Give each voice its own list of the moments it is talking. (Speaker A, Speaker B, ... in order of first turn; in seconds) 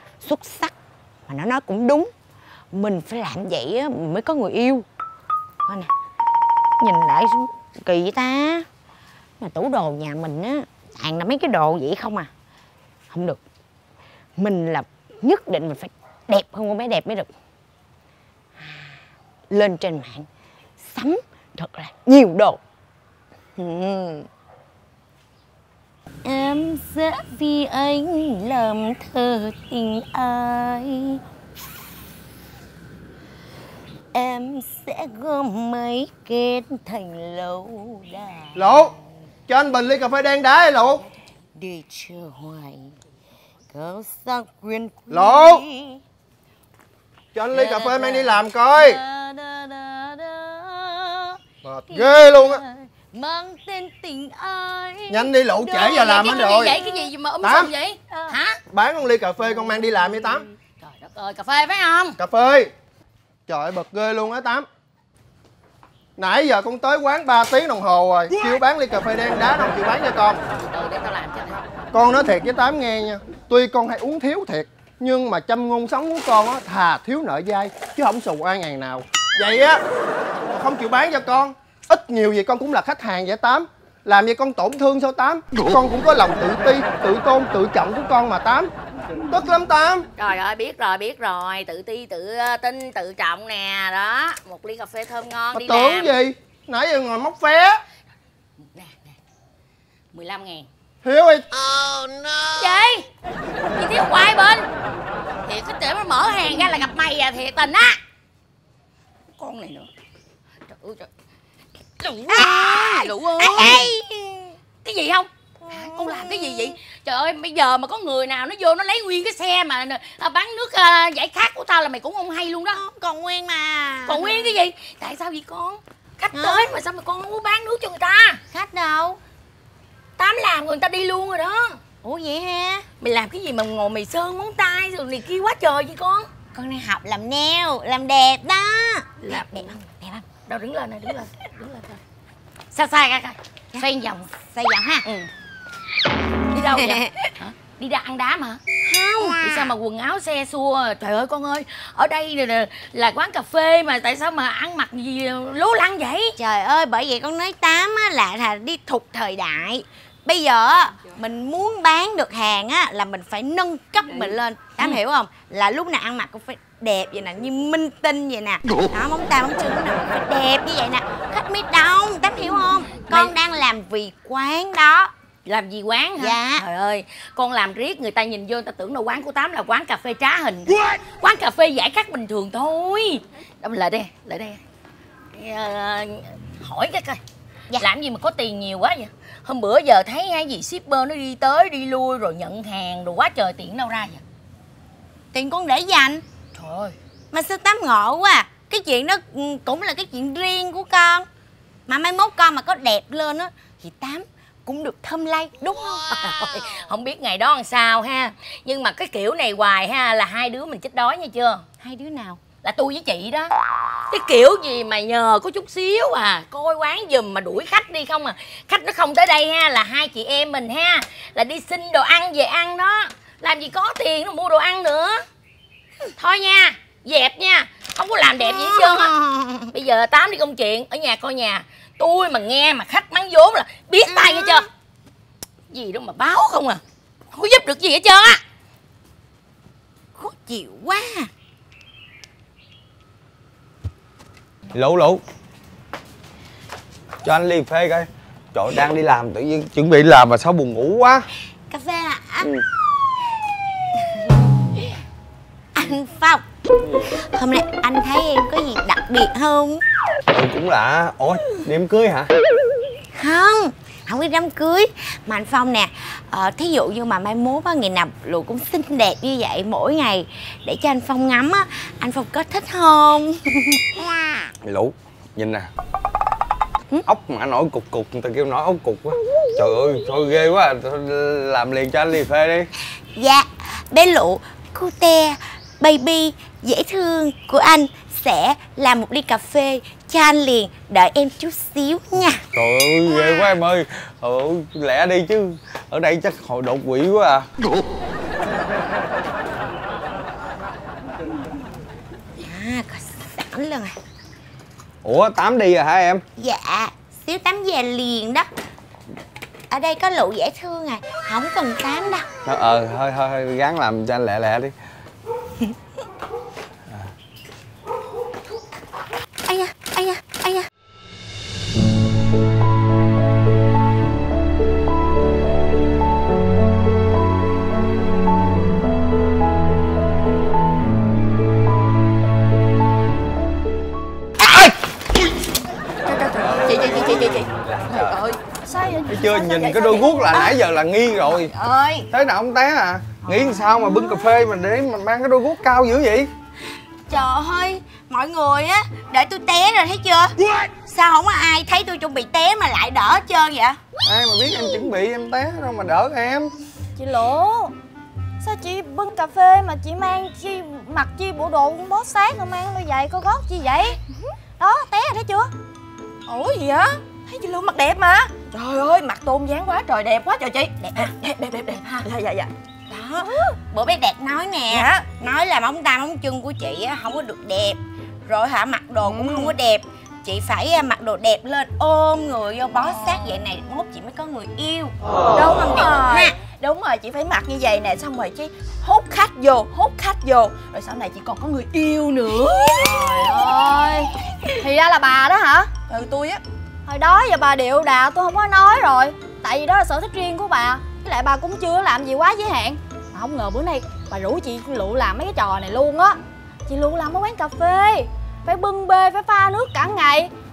Speaker A: 0.2-0.7, 1.3-2.1, 2.7-4.8, 6.8-8.6, 9.4-12.3, 13.1-13.4, 14.4-17.3, 18.6-18.9, 19.5-20.3, 20.8-22.6, 23.6-24.3, 26.2-31.2, 34.1-39.0, 41.5-42.9, 43.7-46.0, 52.0-52.5, 53.1-54.7, 58.1-58.4, 112.3-114.5, 115.6-116.8, 122.7-124.5, 126.3-126.7, 128.5-129.2, 132.0-132.8, 136.5-140.2, 143.7-145.1, 146.5-147.2, 148.8-149.7, 156.4-175.1, 176.2-176.6, 195.3-196.2, 197.3-201.3, 201.9-206.5, 211.8-212.4, 228.4-229.7, 234.1-234.6, 240.1-241.3, 251.7-252.5, 255.8-256.4, 257.1-259.8, 263.1-274.1, 283.1-292.4, 293.1-293.4, 302.4-303.9, 306.4-308.5, 309.7-312.3, 319.4-320.7, 347.1-353.8, 372.9-384.9, 385.5-386.3
Speaker B: 38.5-38.9, 39.5-41.0, 45.1-45.6, 47.3-49.0, 51.6-52.6, 55.1-56.8, 57.4-57.7, 58.7-60.5, 62.2-62.7, 63.5-64.7, 66.2-70.4, 71.9-79.8, 80.5-88.7, 89.3-90.1, 95.5-97.8, 101.0-101.5
Speaker C: 47.5-51.4, 52.0-52.4, 53.1-58.6, 60.8-62.2, 70.6-71.6, 90.2-96.1, 98.7-99.2, 100.1-100.7, 102.4-103.0, 103.8-104.7, 105.5-108.0, 109.4-109.9, 110.7-111.1, 112.0-113.9, 114.8-122.8, 124.1-128.4, 130.2-131.8, 133.0-136.3, 139.2-139.8, 140.4-142.0, 142.7-144.3, 146.5-148.6, 149.2-156.3, 173.1-173.3, 175.4-184.6, 185.3-187.2, 187.8-194.2, 196.5-196.9, 206.1-211.6, 212.6-213.5, 214.1-225.2, 226.2-229.1, 229.7-234.7, 235.7-236.8, 237.3-238.4
Speaker D: 244.7-245.2, 247.2-251.2, 256.8-257.1, 260.3-262.3, 274.6-275.7, 277.1-282.7, 292.5-297.5, 305.0-306.2, 312.4-314.7, 336.4-338.1, 339.1-341.5, 342.1-346.3, 354.0-356.5
Speaker E: 336.0-340.6, 341.5-342.1, 366.3-372.5, 374.7-375.1, 379.0-379.5, 385.3-393.3, 395.9-396.4
Speaker F: 357.0-357.7, 358.4-363.9, 364.6-365.5, 392.8-395.7, 396.9-410.3